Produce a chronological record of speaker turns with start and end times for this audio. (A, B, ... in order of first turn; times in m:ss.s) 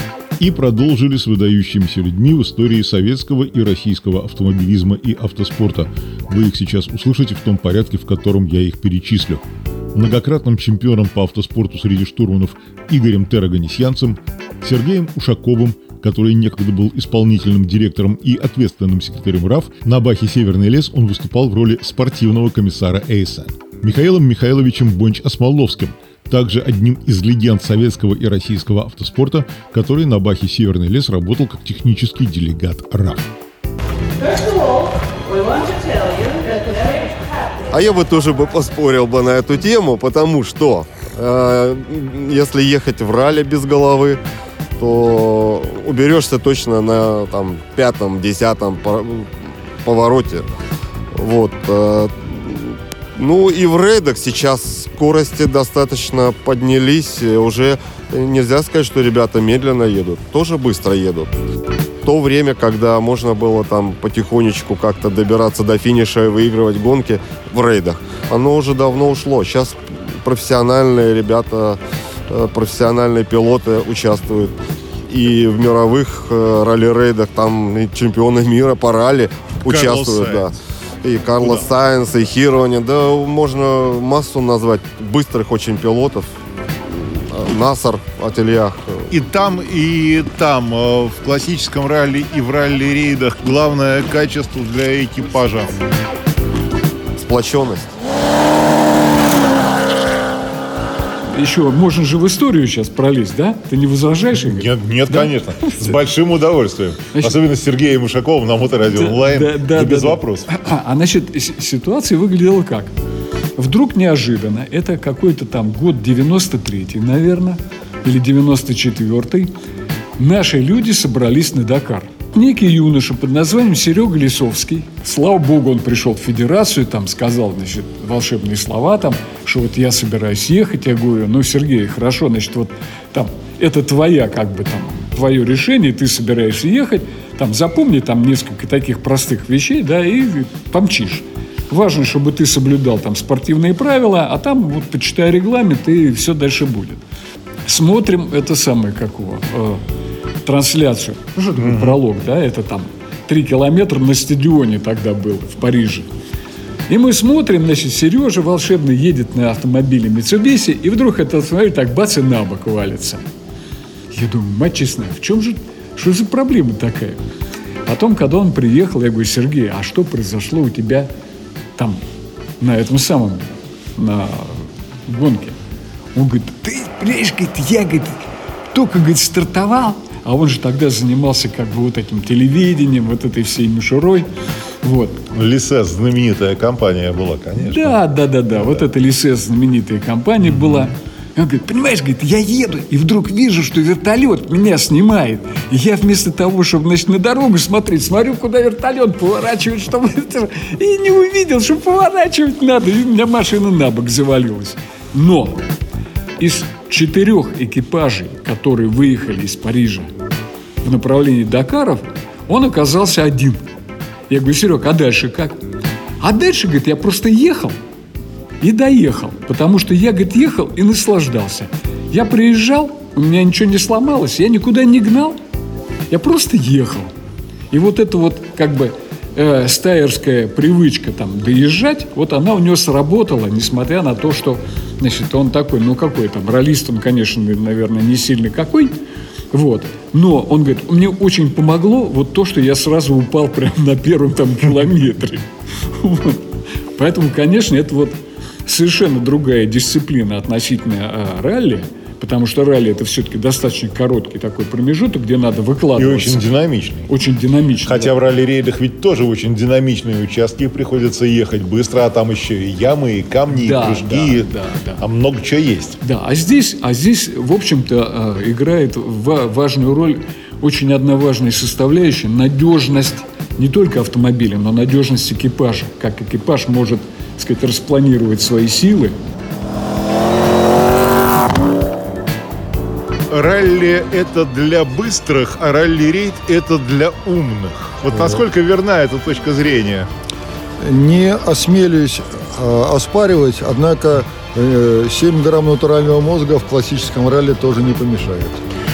0:00.4-0:09.4 A
0:10.0-0:33.3 A
0:37.7-0:44.2 B
0:44.8-0:49.3 B
0:49.8-0:50.5 B
0:51.1-1:01.3 B
1:02.0-1:11.8 B
1:12.3-1:14.5 B
1:15.1-1:20.5 B
1:19.7-1:20.5 A
1:21.0-1:26.3 B
1:21.4-1:21.7 A
1:26.9-1:29.0 B
1:29.1-1:35.7 A
1:37.2-1:37.9 B
1:41.3-1:46.0 C
1:44.4-1:50.5 A
1:48.8-1:52.9 C
1:53.6-1:59.5 C
2:00.2-2:27.0 C
2:27.7-2:29.8 C
2:30.4-2:36.1 C
2:31.6-2:32.0 A
2:36.9-2:43.3 C
2:44.1-2:47.2 C
2:47.9-2:51.1 C
2:52.6-2:55.6 C
2:56.2-3:04.3 C
3:04.8-3:05.2 C
3:05.3-3:08.0 A
3:07.6-3:25.7 C
3:10.4-3:10.9 A
3:26.4-3:30.1 C
3:30.8-3:33.6 C
3:34.3-3:35.6 C
3:36.2-3:37.8 C
3:38.6-3:45.4 C
3:46.1-3:47.1 C
3:47.7-3:59.0 C
3:59.5-4:05.5 C
4:06.0-4:06.4 C
4:07.0-4:16.4 C
4:16.0-4:17.1 A
4:17.1-4:18.1 C
4:17.8-4:24.5 A
4:23.5-4:25.0 C
4:25.0-4:26.0 A
4:26.0-4:39.2 C
4:43.3-4:50.1 A
4:48.1-4:48.4 D
4:50.8-4:58.6 D